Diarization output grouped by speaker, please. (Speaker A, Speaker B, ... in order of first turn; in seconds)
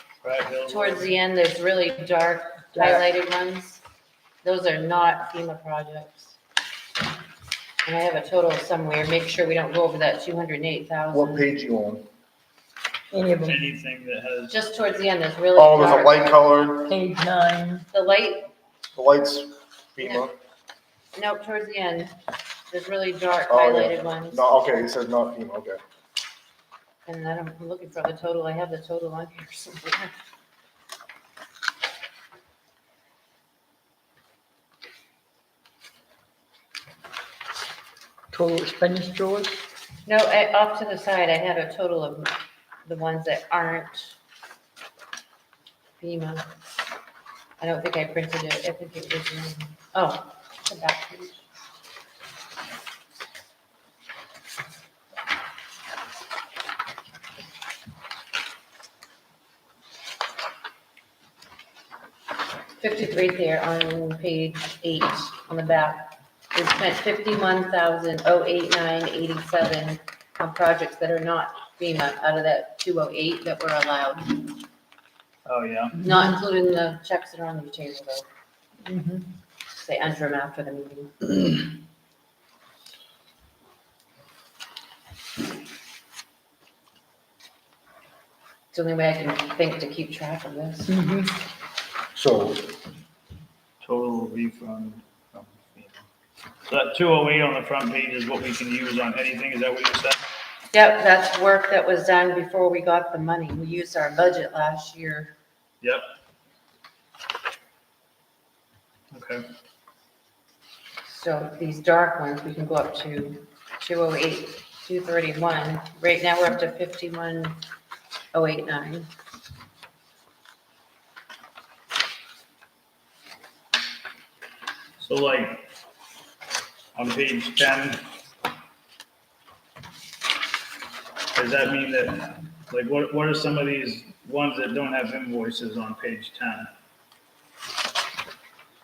Speaker A: 0.2-1.1, 13.4-14.6, 75.4-76.0, 93.8-96.0, 96.7-100.2, 109.1-109.5, 125.0-125.6, 126.9-128.0, 131.3-136.7
Speaker B: 0.7-3.8, 4.4-6.4, 7.8-11.5, 14.5-16.7, 17.9-18.5, 21.1-22.1, 22.7-24.5, 27.1-30.1, 40.0-42.3, 42.8-44.1, 46.0-46.4, 47.6-51.5, 62.8-74.5, 76.0-78.2, 79.7-81.3, 88.7-91.0, 100.7-105.3, 111.0-117.6, 118.3-119.1
Speaker C: 2.7-3.0, 13.1-13.6, 16.9-17.8, 38.3-39.6, 78.8-79.3, 90.9-91.3
Speaker D: 11.1-12.1, 15.6-16.9, 18.9-20.3, 23.5-25.8, 92.1-92.7